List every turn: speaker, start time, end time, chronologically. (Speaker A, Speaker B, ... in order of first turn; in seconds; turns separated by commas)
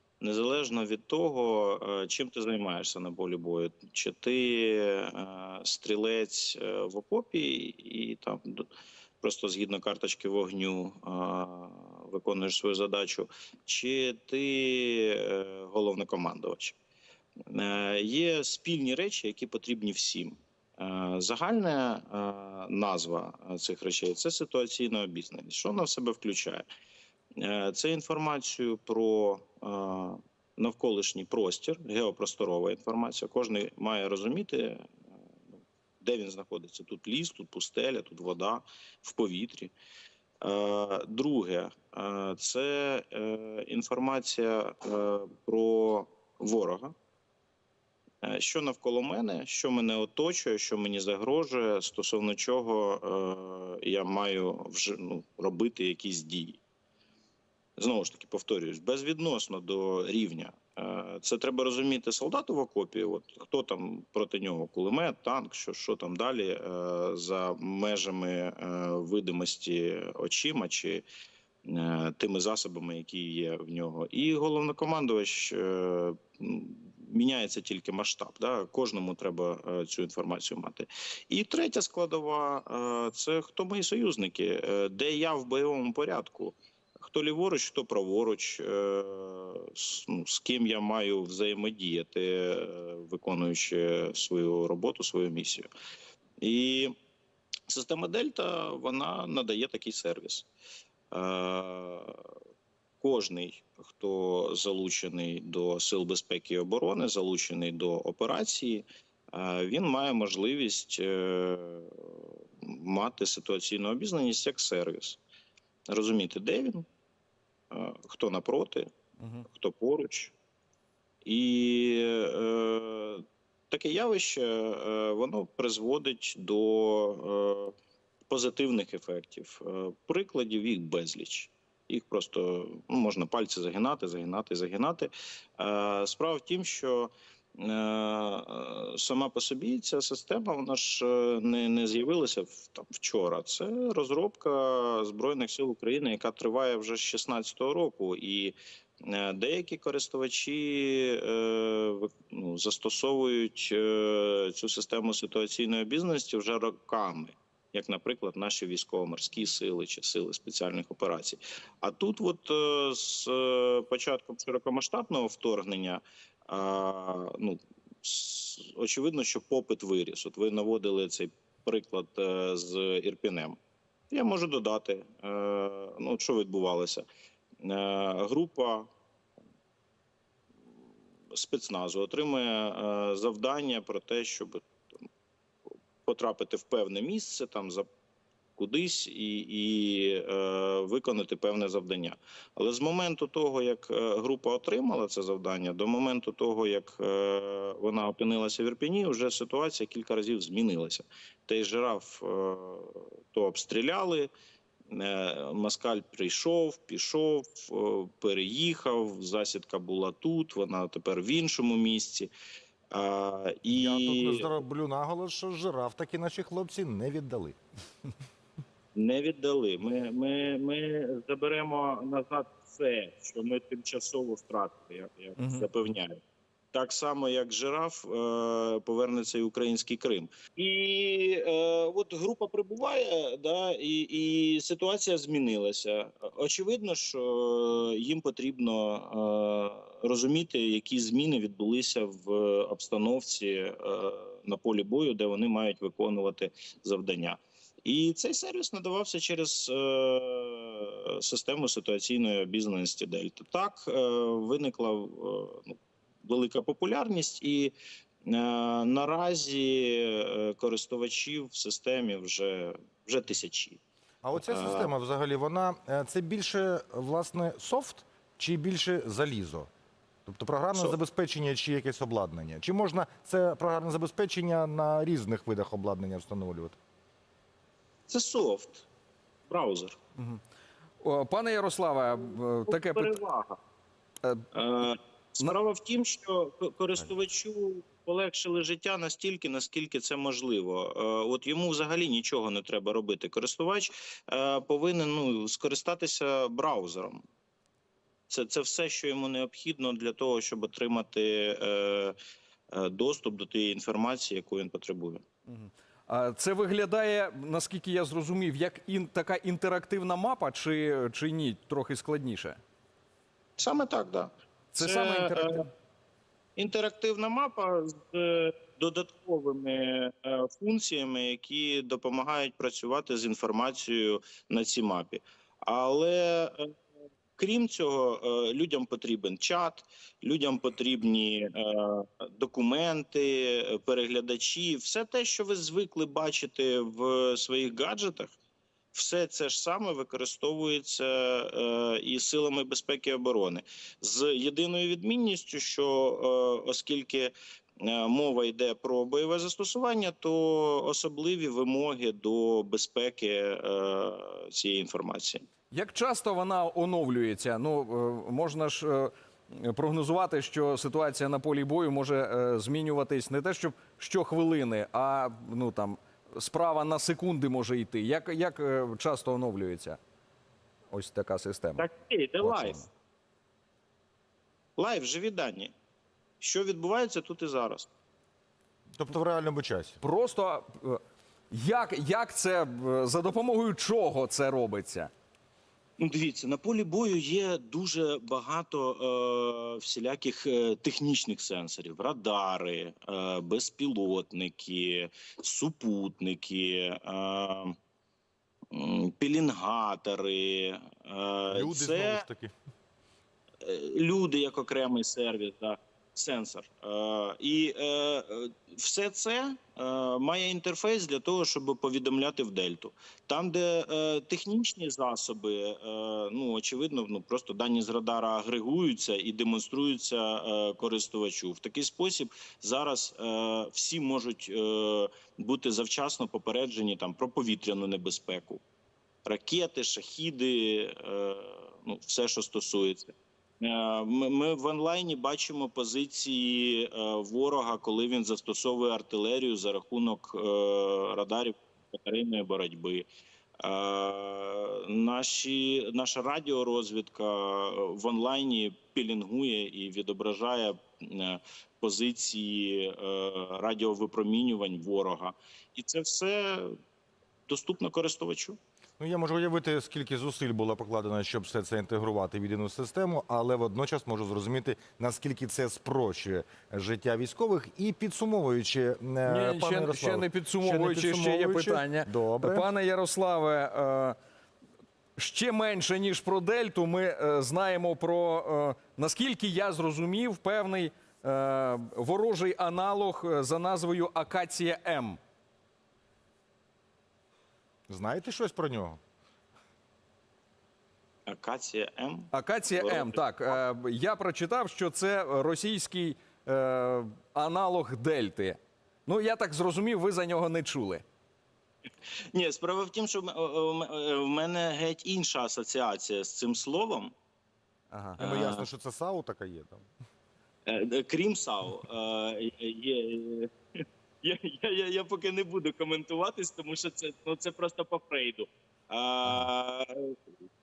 Speaker A: 0.2-8.7, Speaker A: 9.2-16.8, Speaker A: 17.5-26.7, Speaker A: 27.4-34.9, Speaker A: 35.5-39.7, Speaker A: 40.4-46.9, Speaker A: 48.2-56.6, Speaker A: 57.8-71.0, Speaker A: 71.7-95.7, Speaker A: 96.4-96.9, Speaker A: 97.7-100.5, Speaker A: 101.1-102.2, Speaker A: 103.0-115.2, Speaker A: 115.9-116.9, Speaker A: 117.7-118.9, Speaker B: 119.2-119.5, Speaker A: 119.5-120.3, Speaker A: 121.2-127.7, Speaker A: 128.3-173.6, Speaker A: 174.1-177.1, Speaker A: 177.6-178.9, Speaker A: 181.3-184.9, Speaker A: 186.1-187.9, Speaker A: 188.6-204.3, Speaker A: 204.9-212.3, Speaker A: 212.9-214.6, Speaker C: 213.7-217.6, Speaker A: 218.9-226.2, Speaker B: 225.4-225.7, Speaker A: 226.7-263.8, Speaker C: 264.2-269.7, Speaker A: 264.4-264.9, Speaker C: 270.3-276.8, Speaker A: 278.1-278.9, Speaker A: 279.5-280.0, Speaker B: 281.0-283.2, Speaker A: 282.7-283.6, Speaker B: 284.2-284.9, Speaker A: 284.5-297.2, Speaker A: 298.3-302.2, Speaker A: 302.7-305.2, Speaker B: 305.5-312.6, Speaker A: 313.6-315.7, Speaker B: 314.7-315.7, Speaker A: 316.6-326.7, Speaker A: 327.4-338.3, Speaker A: 338.9-355.4, Speaker B: 355.7-370.0, Speaker B: 370.9-371.9, Speaker A: 371.8-372.8, Speaker B: 372.4-372.9, Speaker A: 374.8-375.7, Speaker A: 376.4-377.9, Speaker C: 379.0-380.0, Speaker B: 380.0-381.0, Speaker B: 381.5-385.1, Speaker A: 386.0-397.8, Speaker A: 398.7-402.2, Speaker C: 401.5-402.5, Speaker A: 403.6-428.6, Speaker A: 429.3-443.1, Speaker A: 443.6-456.8, Speaker A: 457.5-458.6, Speaker C: 459.0-472.7, Speaker B: 469.2-474.2, Speaker B: 475.2-485.2, Speaker C: 487.9-489.0, Speaker A: 491.3-493.2, Speaker B: 492.3-501.0, Speaker A: 502.3-507.1, Speaker B: 507.9-508.2, Speaker A: 508.2-508.7, Speaker C: 508.2-509.9, Speaker A: 510.7-513.5, Speaker A: 514.2-520.2